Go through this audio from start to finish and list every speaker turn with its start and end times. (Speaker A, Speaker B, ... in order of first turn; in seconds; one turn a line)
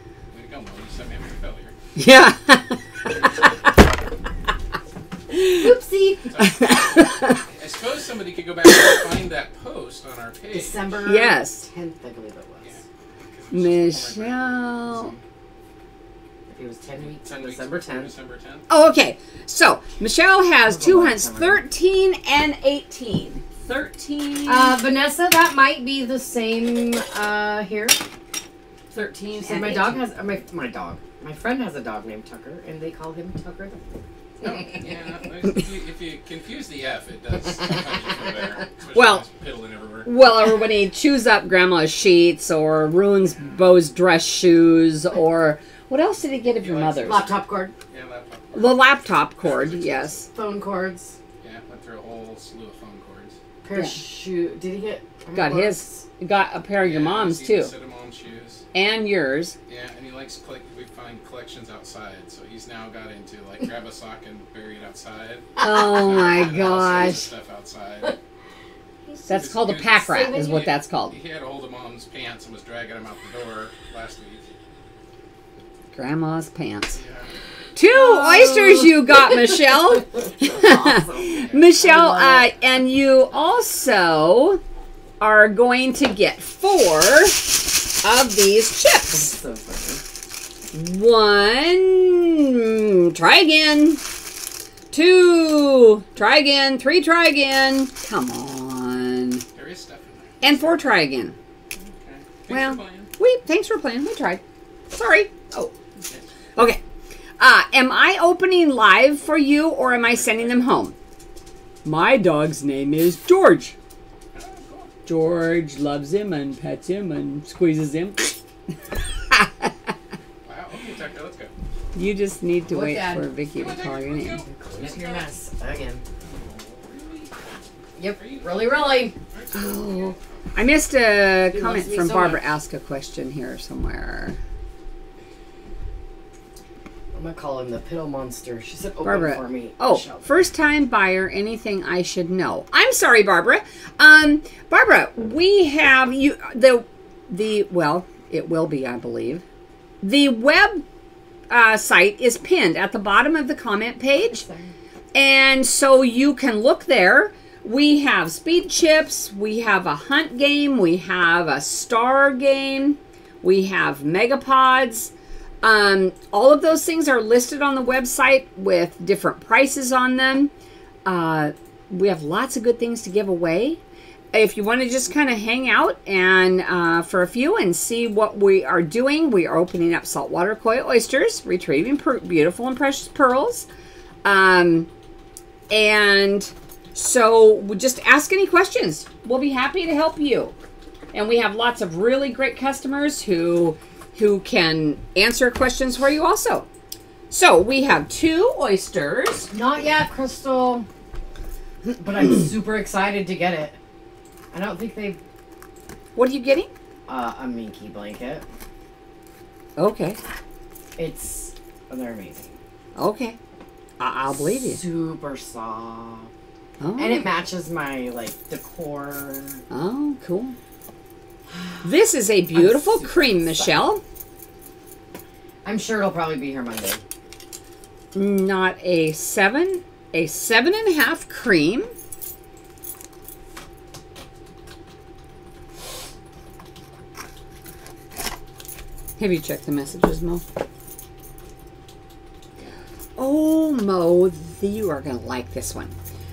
Speaker A: 0.3-1.7
Speaker B: 1.9-3.5
Speaker B: 5.3-5.7
Speaker C: 5.6-6.3
Speaker A: 6.3-11.0
Speaker B: 6.4-7.4
Speaker C: 10.5-12.8
Speaker B: 11.0-11.6
Speaker A: 12.6-15.2
Speaker B: 13.5-15.1
Speaker C: 16.5-18.1
Speaker A: 17.0-18.7
Speaker B: 18.7-24.8
Speaker C: 20.6-21.6
Speaker C: 24.4-28.0
Speaker B: 28.9-30.0
Speaker C: 29.4-33.8
Speaker C: 34.4-34.9
Speaker A: 34.4-40.1
Speaker B: 38.9-39.2
Speaker B: 40.0-47.2
Speaker A: 46.5-48.8
Speaker C: 47.0-47.7
Speaker B: 48.5-50.3
Speaker A: 49.4-50.3
Speaker C: 50.3-51.2
Speaker A: 51.4-53.4
Speaker C: 53.6-56.0
Speaker B: 55.3-57.7
Speaker A: 56.8-58.6
Speaker B: 58.7-59.5
Speaker A: 59.7-68.2
Speaker C: 65.6-66.4
Speaker B: 65.6-67.2
Speaker B: 69.2-71.2
Speaker A: 69.3-74.4
Speaker C: 70.1-70.6
Speaker B: 75.9-77.0
Speaker A: 77.0-77.3
Speaker B: 77.7-84.6
Speaker C: 77.9-79.6
Speaker C: 80.2-82.5
Speaker A: 81.5-81.8
Speaker B: 85.2-89.3
Speaker C: 89.1-90.0
Speaker B: 90.7-94.0
Speaker B: 94.9-99.4
Speaker A: 99.5-100.4
Speaker B: 100.4-101.3
Speaker A: 101.8-103.1
Speaker B: 102.5-105.7
Speaker B: 107.4-110.9
Speaker A: 110.0-110.7
Speaker B: 111.8-113.7
Speaker A: 114.3-114.9
Speaker B: 115.0-118.3
Speaker B: 119.3-119.7
Speaker A: 120.4-121.5
Speaker B: 121.9-124.4
Speaker C: 122.7-123.2
Speaker A: 123.6-125.3
Speaker C: 124.5-126.0
Speaker A: 126.2-127.4
Speaker C: 128.0-129.1
Speaker A: 128.0-130.2
Speaker B: 129.5-134.4
Speaker C: 131.5-132.4
Speaker C: 137.1-140.3
Speaker B: 139.0-149.4
Speaker B: 150.0-150.8
Speaker B: 151.5-154.5
Speaker C: 154.2-154.7
Speaker B: 155.1-170.5
Speaker B: 171.0-173.8
Speaker B: 174.3-183.7
Speaker B: 184.2-184.9
Speaker B: 185.7-190.5
Speaker B: 191.1-196.7
Speaker B: 197.3-199.5
Speaker C: 199.5-200.9
Speaker C: 201.9-203.8
Speaker C: 204.5-205.2
Speaker B: 206.2-206.7
Speaker C: 207.1-208.4
Speaker B: 209.8-210.2
Speaker C: 211.0-212.6
Speaker B: 212.9-213.4
Speaker B: 214.0-214.8
Speaker C: 214.4-216.3
Speaker B: 216.8-217.3
Speaker C: 217.0-219.6
Speaker B: 219.7-220.6
Speaker C: 221.5-221.8
Speaker B: 221.8-224.0
Speaker C: 222.5-223.8
Speaker C: 225.6-227.0
Speaker B: 228.1-231.9
Speaker B: 239.2-240.4
Speaker B: 243.2-245.9